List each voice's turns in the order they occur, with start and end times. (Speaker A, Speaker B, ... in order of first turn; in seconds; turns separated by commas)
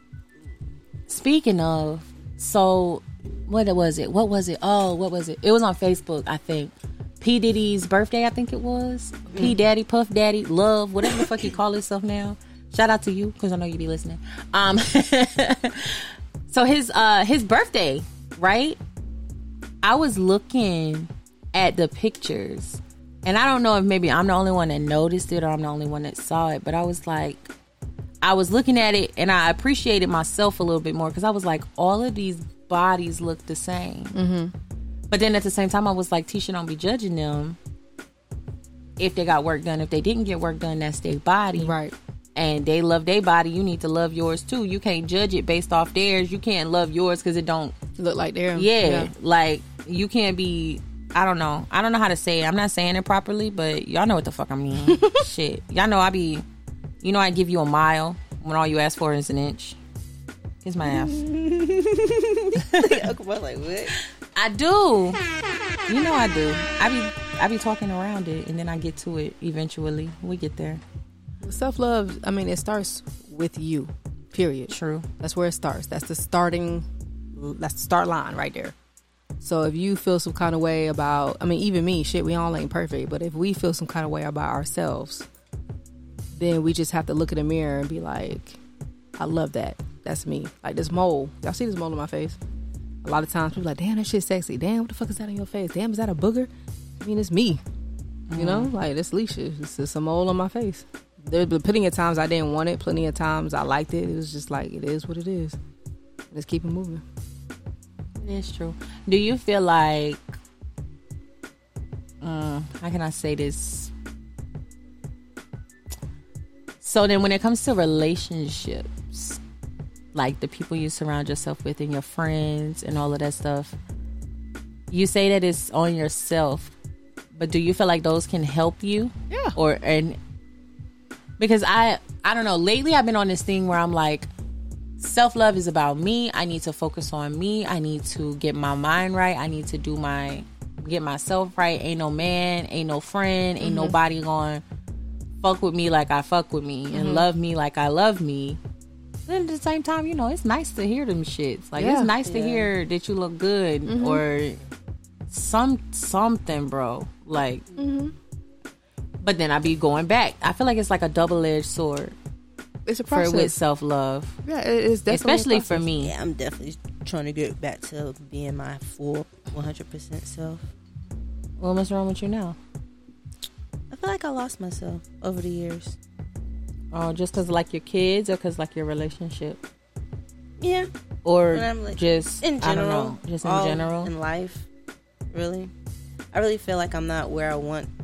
Speaker A: 1.1-18.8, Speaker A: 19.8-27.5, Speaker A: 28.2-34.2, Speaker B: 34.1-34.5, Speaker A: 35.1-37.6, Speaker A: 39.0-41.8, Speaker B: 41.6-41.9, Speaker A: 42.4-47.8, Speaker B: 48.0-49.1, Speaker A: 48.5-56.5, Speaker B: 54.9-55.2, Speaker A: 57.0-59.8, Speaker A: 60.6-61.3, Speaker C: 60.9-63.9, Speaker A: 62.6-63.0, Speaker A: 64.4-65.2, Speaker A: 65.9-70.8, Speaker B: 71.4-78.7, Speaker A: 74.7-75.1, Speaker B: 79.4-85.3, Speaker B: 86.3-88.6, Speaker B: 89.2-92.4, Speaker B: 93.0-97.6, Speaker A: 98.3-98.7, Speaker B: 98.3-105.6, Speaker B: 106.3-107.0, Speaker A: 108.2-110.2, Speaker A: 112.2-113.9, Speaker A: 116.8-119.4, Speaker A: 120.1-123.8, Speaker A: 124.9-126.7, Speaker A: 127.3-130.2, Speaker B: 129.3-129.6, Speaker A: 131.4-134.3, Speaker A: 135.0-144.6, Speaker B: 143.6-144.0, Speaker A: 145.4-148.6, Speaker B: 146.9-147.3, Speaker A: 149.3-154.6, Speaker B: 151.8-152.1, Speaker C: 152.2-152.7, Speaker B: 153.9-154.2, Speaker A: 155.3-157.7, Speaker B: 157.8-158.1, Speaker A: 159.2-162.2, Speaker B: 162.9-163.6, Speaker A: 163.1-164.4, Speaker B: 164.4-165.9, Speaker A: 165.1-166.1, Speaker C: 166.0-170.6, Speaker A: 171.6-172.6, Speaker C: 173.9-176.0, Speaker A: 176.9-179.6, Speaker C: 180.6-180.9, Speaker A: 181.2-184.1, Speaker C: 181.5-184.7, Speaker C: 185.3-185.7, Speaker C: 186.3-187.9